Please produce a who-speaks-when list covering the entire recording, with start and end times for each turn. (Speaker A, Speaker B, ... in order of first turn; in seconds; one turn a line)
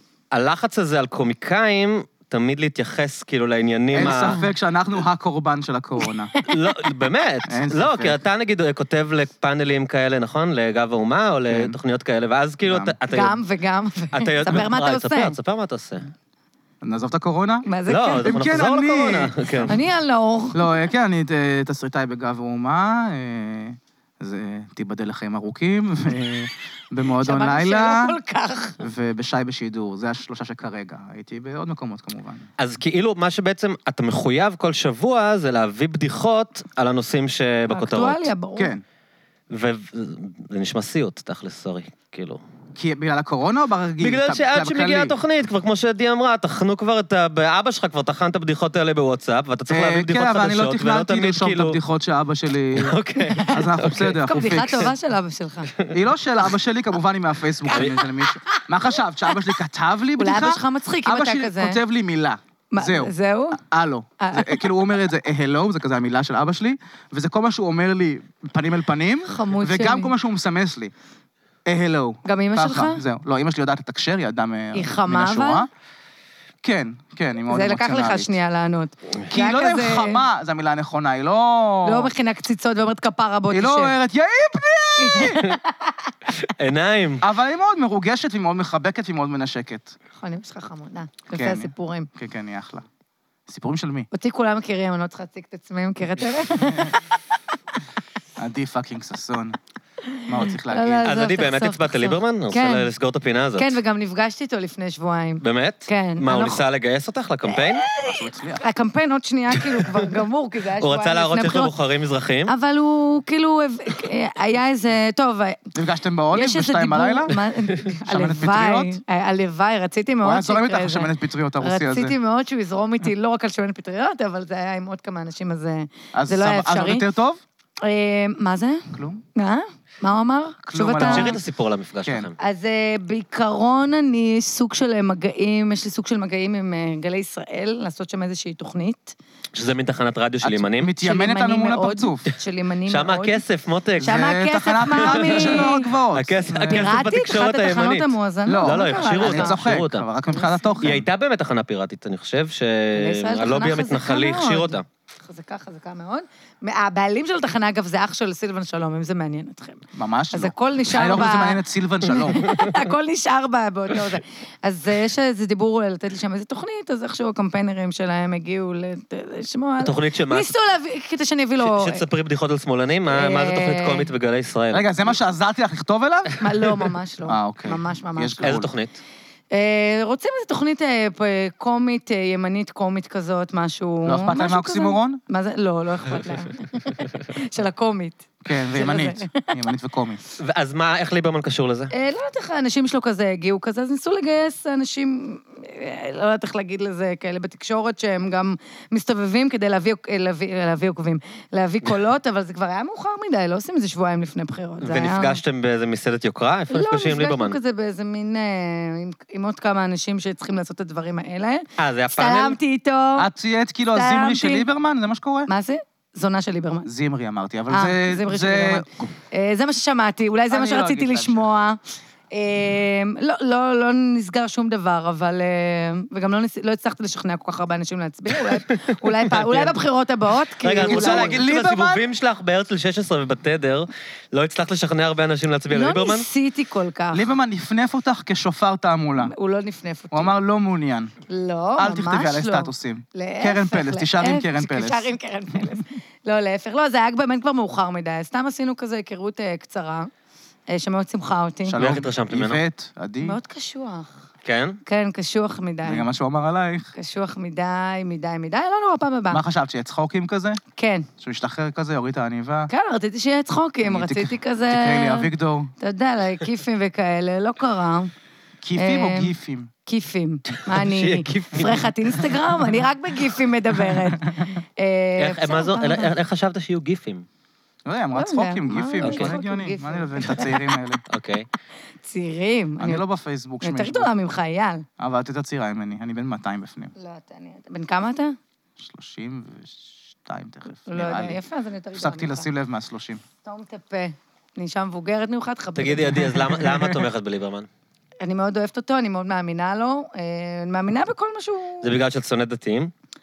Speaker A: 0.3-4.4
Speaker B: 3.9-6.3
Speaker C: 4.0-4.5
Speaker A: 6.4-13.4
Speaker B: 7.5-8.2
Speaker B: 11.5-11.8
Speaker B: 12.6-12.9
Speaker C: 13.1-15.4
Speaker A: 14.1-16.1
Speaker B: 16.8-17.7
Speaker C: 17.6-18.3
Speaker A: 17.9-19.8
Speaker B: 18.2-19.8
Speaker C: 19.7-20.6
Speaker B: 20.5-28.1
Speaker C: 27.2-28.8
Speaker B: 28.8-32.5
Speaker A: 32.6-38.3
Speaker C: 37.7-38.7
Speaker B: 38.6-38.8
Speaker A: 39.5-42.4
Speaker B: 42.8-45.1
Speaker A: 44.0-51.8
Speaker B: 49.7-53.0
Speaker A: 52.8-54.9
Speaker C: 53.3-53.6
Speaker B: 53.5-54.9
Speaker C: 54.2-55.7
Speaker B: 55.9-70.9
Speaker C: 57.7-59.5
Speaker A: 57.7-58.0
Speaker C: 60.2-61.8
Speaker C: 62.7-63.6
Speaker C: 64.2-64.7
Speaker C: 69.2-70.1
Speaker B: 71.7-75.7
Speaker C: 72.2-73.0
Speaker C: 74.7-75.7
Speaker B: 76.6-78.3
Speaker C: 77.5-80.2
Speaker B: 79.3-82.1
Speaker C: 81.8-84.0
Speaker B: 83.5-85.4
Speaker C: 85.0-86.1
Speaker A: 85.2-85.6
Speaker A: 86.3-87.2
Speaker B: 87.2-89.9
Speaker C: 90.2-92.1
Speaker B: 91.3-92.8
Speaker B: 93.5-94.1
Speaker C: 94.1-97.1
Speaker B: 98.4-99.6
Speaker C: 100.1-102.9
Speaker B: 100.2-101.1
Speaker A: 101.0-103.8
Speaker C: 103.6-106.6
Speaker A: 105.4-107.9
Speaker C: 107.5-111.7
Speaker B: 108.0-108.6
Speaker A: 109.6-110.1
Speaker A: 110.8-112.5
Speaker C: 112.5-115.7
Speaker B: 115.7-117.3
Speaker C: 116.3-127.0
Speaker B: 118.0-118.9
Speaker B: 120.2-122.1
Speaker B: 126.1-127.4
Speaker C: 127.8-131.4
Speaker B: 128.9-129.2
Speaker B: 130.7-131.4
Speaker A: 131.0-132.3
Speaker C: 132.4-139.2
Speaker A: 139.5-140.9
Speaker B: 140.4-142.2
Speaker C: 141.0-143.4
Speaker A: 142.9-144.2
Speaker C: 144.0-145.9
Speaker B: 144.0-146.9
Speaker A: 144.9-150.0
Speaker C: 146.6-149.6
Speaker B: 148.5-151.1
Speaker C: 150.3-150.8
Speaker A: 150.8-154.8
Speaker C: 152.9-172.0
Speaker B: 159.9-162.4
Speaker A: 169.8-170.5
Speaker A: 171.6-175.2
Speaker C: 173.1-174.1
Speaker B: 174.7-176.3
Speaker C: 176.4-178.5
Speaker B: 177.3-178.7
Speaker A: 178.4-179.0
Speaker C: 179.5-189.5
Speaker B: 184.0-185.2
Speaker B: 188.4-190.2
Speaker A: 190.4-191.9
Speaker C: 191.9-205.4
Speaker A: 204.8-207.6
Speaker C: 206.7-213.3
Speaker A: 211.8-212.6
Speaker B: 213.2-215.5
Speaker C: 213.9-214.7
Speaker C: 215.5-216.9
Speaker B: 216.8-219.1
Speaker C: 217.7-221.8
Speaker B: 220.5-221.4
Speaker C: 222.3-231.4
Speaker A: 228.3-229.8
Speaker A: 230.6-236.3
Speaker B: 230.8-232.0
Speaker C: 235.7-237.3
Speaker B: 237.1-239.3
Speaker C: 239.2-240.4
Speaker B: 240.1-241.1
Speaker C: 241.3-250.1
Speaker B: 241.8-245.7
Speaker C: 250.7-251.8
Speaker B: 251.7-253.4
Speaker A: 251.8-252.6
Speaker C: 253.2-254.1
Speaker A: 254.4-254.8
Speaker C: 254.8-256.1
Speaker B: 255.8-256.9
Speaker C: 256.9-259.4
Speaker B: 259.3-260.6
Speaker C: 260.8-261.1
Speaker B: 261.2-262.7
Speaker C: 262.7-268.1
Speaker B: 263.8-265.7
Speaker B: 268.6-269.7
Speaker C: 268.8-269.3
Speaker C: 269.9-276.1
Speaker A: 270.5-272.6
Speaker A: 275.2-277.2
Speaker B: 277.8-281.0
Speaker C: 278.1-280.6
Speaker A: 279.0-279.4
Speaker A: 281.1-281.5
Speaker C: 282.0-283.0
Speaker B: 282.8-284.1
Speaker C: 283.6-284.8
Speaker B: 285.0-286.9
Speaker C: 286.9-288.4
Speaker B: 288.8-291.4
Speaker C: 290.9-292.5
Speaker B: 291.9-293.2
Speaker C: 293.4-296.4
Speaker A: 295.8-297.7
Speaker B: 296.6-297.1
Speaker C: 298.2-301.9
Speaker A: 301.8-302.9